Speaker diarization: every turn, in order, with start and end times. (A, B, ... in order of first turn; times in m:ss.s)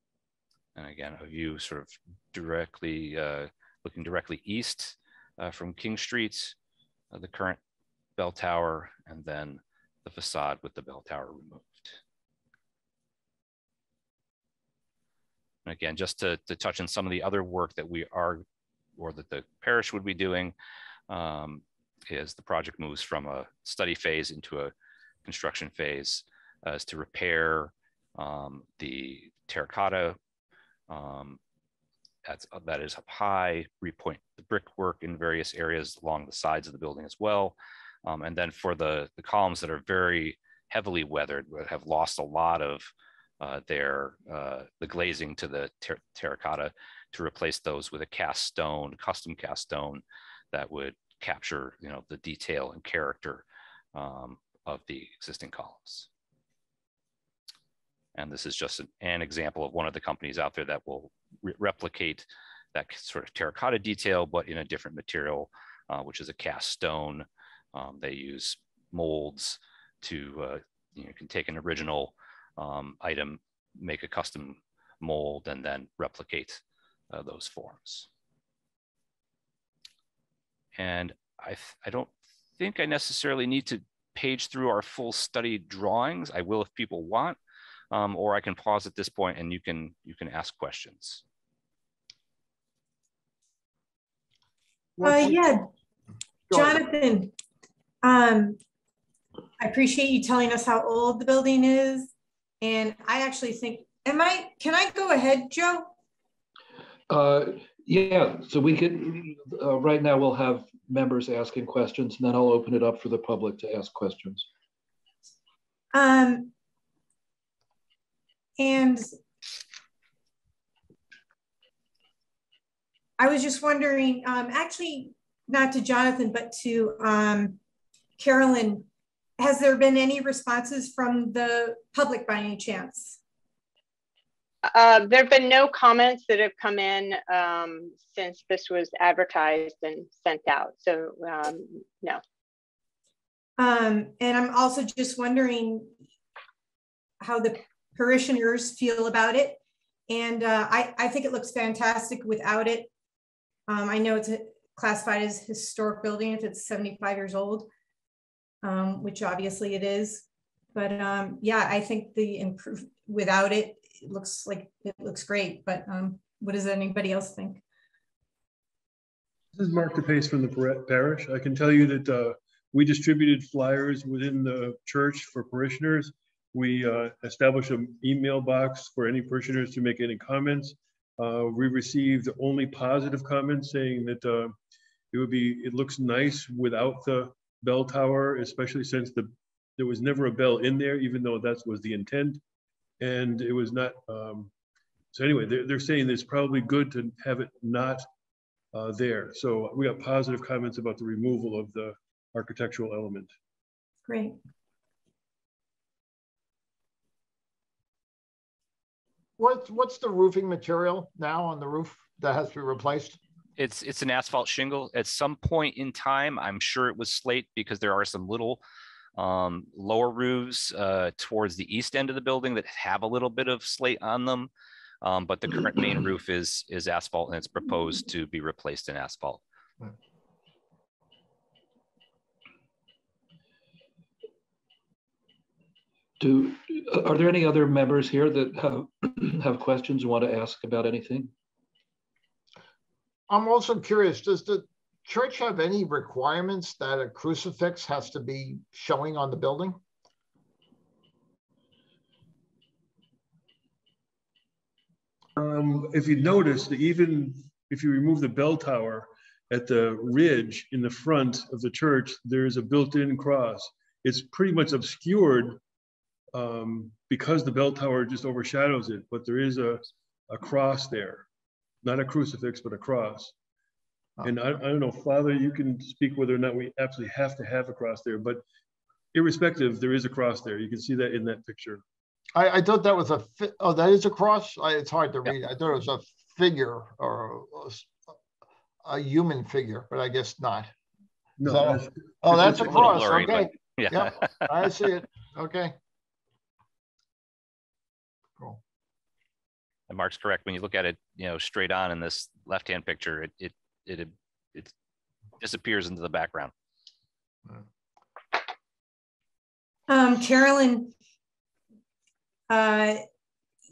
0:00.8-0:06.6 A
0:07.1-0:07.6 A
0:08.2-0:12.0 A
0:15.7-0:18.4 A
0:19.0-0:20.6 A
0:21.1-0:24.7 A
0:25.2-0:30.2 A
0:30.9-0:31.4 A
0:32.3-0:53.4 A
0:54.0-0:56.1 A
0:58.2-1:18.1 A
1:20.8-1:27.4 A
1:27.9-1:31.2 A
1:35.0-1:35.4 B
1:35.0-1:35.7 C
1:36.5-1:36.8 B
1:36.5-1:37.3 C
1:38.0-1:38.6 C
1:39.6-1:45.9 C
1:47.1-1:54.5 D
1:55.9-1:56.5 C
1:58.6-1:59.1 C
2:03.2-2:07.6 C
2:08.2-2:13.2 C
2:14.7-2:22.2 E
2:23.6-2:25.9 C
2:27.2-2:32.9 C
2:33.7-2:37.7 C
2:38.6-2:47.6 C
2:49.6-3:04.6 F
3:05.1-3:12.4 F
3:13.0-3:14.5 F
3:15.1-3:18.1 F
3:18.7-3:23.3 F
3:24.1-3:24.4 C
3:29.4-3:33.2 B
3:33.6-3:38.6 A
3:39.2-3:44.5 A
3:45.0-3:49.4 A
3:56.2-4:01.3 D
4:03.3-4:09.8 B
4:15.4-4:25.6 F
4:26.3-4:31.3 F
4:31.8-4:33.3 F
4:34.2-4:38.4 F
4:39.1-4:41.8 F
4:42.4-4:47.9 B
4:48.8-4:50.7 B
4:51.4-4:53.0 F
4:51.4-4:55.8 B
4:52.6-4:54.5 A
4:59.9-5:04.7 A
5:05.4-5:06.5 A
5:09.9-5:10.9 C
5:12.5-5:13.0 C